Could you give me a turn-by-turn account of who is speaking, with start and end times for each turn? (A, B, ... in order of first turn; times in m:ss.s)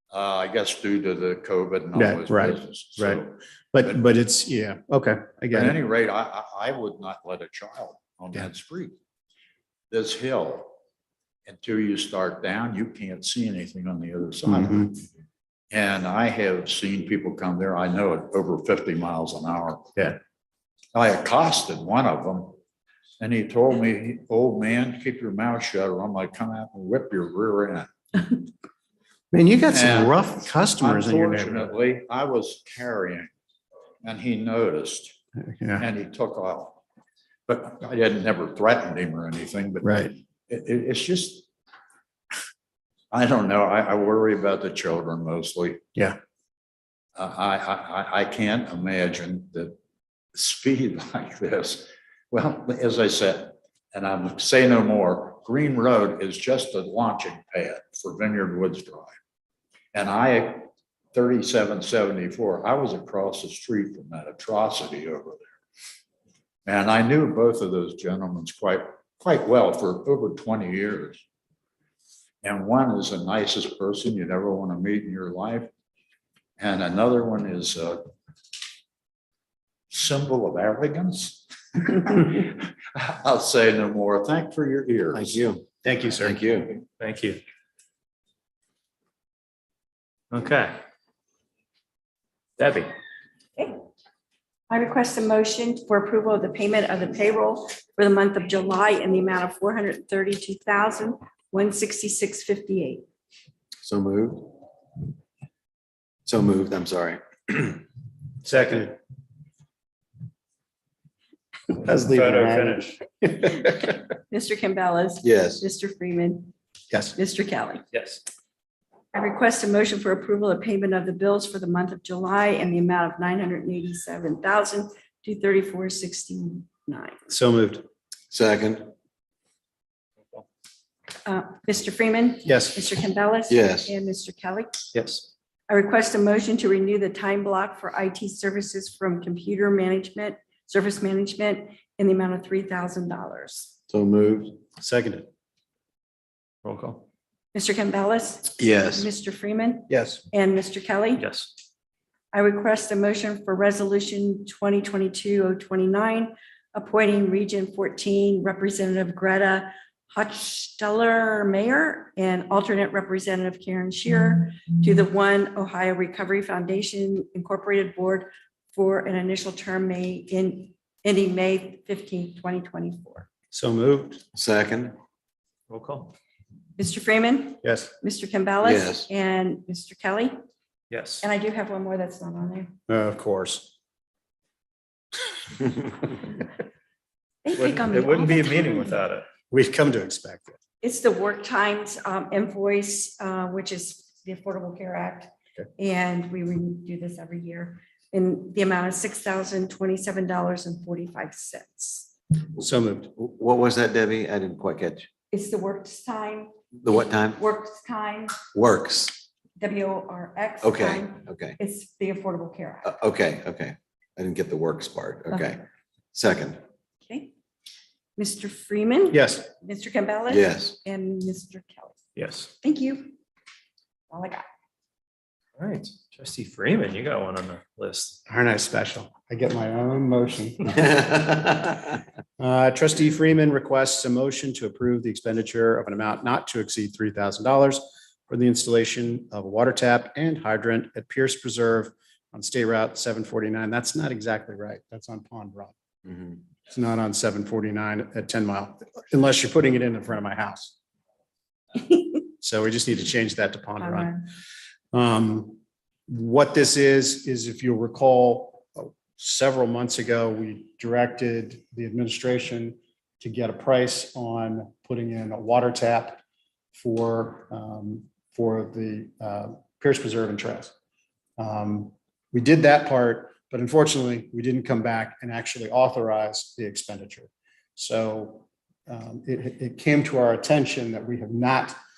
0:00.1-0:04.0 A
0:01.9-0:05.8 B
0:05.5-0:09.0 A
0:09.9-0:10.8 A
0:11.5-0:15.0 A
0:14.5-0:14.9 B
0:15.7-0:19.9 A
0:20.9-0:22.6 A
0:23.2-0:27.9 A
0:29.3-0:31.7 B
0:29.7-0:33.3 A
0:34.0-0:35.2 A
0:35.4-0:35.9 B
0:35.8-0:36.8 A
0:37.5-0:41.5 A
0:39.8-0:40.1 B
0:43.1-0:45.8 A
0:47.2-0:49.8 A
0:50.4-0:59.1 A
0:59.9-1:05.5 A
1:06.7-1:11.2 A
1:12.4-1:15.7 A
1:16.6-1:18.0 A
1:19.9-1:25.4 A
1:25.2-1:26.4 B
1:25.2-1:25.6 C
1:26.2-1:26.8 C
1:27.0-1:27.4 D
1:30.3-1:30.8 D
1:32.6-1:32.9 D
1:34.7-1:43.1 E
1:43.8-1:44.6 C
1:46.2-1:47.8 C
1:48.4-1:49.0 B
1:48.5-1:48.9 D
1:51.7-1:53.9 B
1:52.0-1:53.0 D
1:54.3-1:56.5 E
1:55.2-1:55.6 C
1:57.2-1:57.8 E
1:57.9-1:58.2 D
1:59.1-2:07.2 E
2:07.3-2:07.8 B
2:08.3-2:08.9 C
2:11.2-2:14.8 E
2:12.4-2:12.8 B
2:13.5-2:13.9 C
2:14.9-2:15.3 D
2:15.7-2:23.7 E
2:23.9-2:24.6 C
2:24.8-2:25.3 B
2:26.6-2:27.1 D
2:27.5-2:31.3 E
2:28.6-2:29.1 C
2:29.9-2:30.2 B
2:31.2-2:31.5 D
2:32.3-2:53.3 E
2:53.5-2:54.2 B
2:54.3-2:55.0 C
2:55.7-2:56.1 D
2:56.8-3:00.4 E
2:57.6-2:57.9 B
2:58.6-2:59.1 C
3:00.9-3:01.3 D
3:01.2-3:02.8 E
3:02.9-3:03.7 B
3:07.4-3:08.9 E
3:07.5-3:09.3 D
3:09.5-3:10.6 B
3:10.8-3:22.1 E
3:22.6-3:23.1 B
3:23.2-3:25.1 C
3:25.3-3:26.5 E
3:26.8-3:27.4 C
3:27.4-3:28.4 E
3:28.5-3:29.2 C
3:29.6-3:32.9 E
3:30.6-3:31.6 C
3:32.8-3:36.6 C
3:37.1-3:37.3 E
3:38.2-3:42.0 E
3:39.1-3:39.5 B
3:40.3-3:40.8 C
3:42.2-3:42.5 D
3:42.6-3:43.2 E
3:44.1-3:44.4 E
3:45.6-3:48.2 D
3:48.3-3:51.1 B
3:52.4-4:05.8 B
4:06.7-4:10.7 B
4:12.4-4:14.1 B
4:13.8-4:14.2 E
4:14.9-4:15.6 B
4:16.1-4:26.2 B
4:26.7-4:30.7 B
4:31.4-4:41.8 B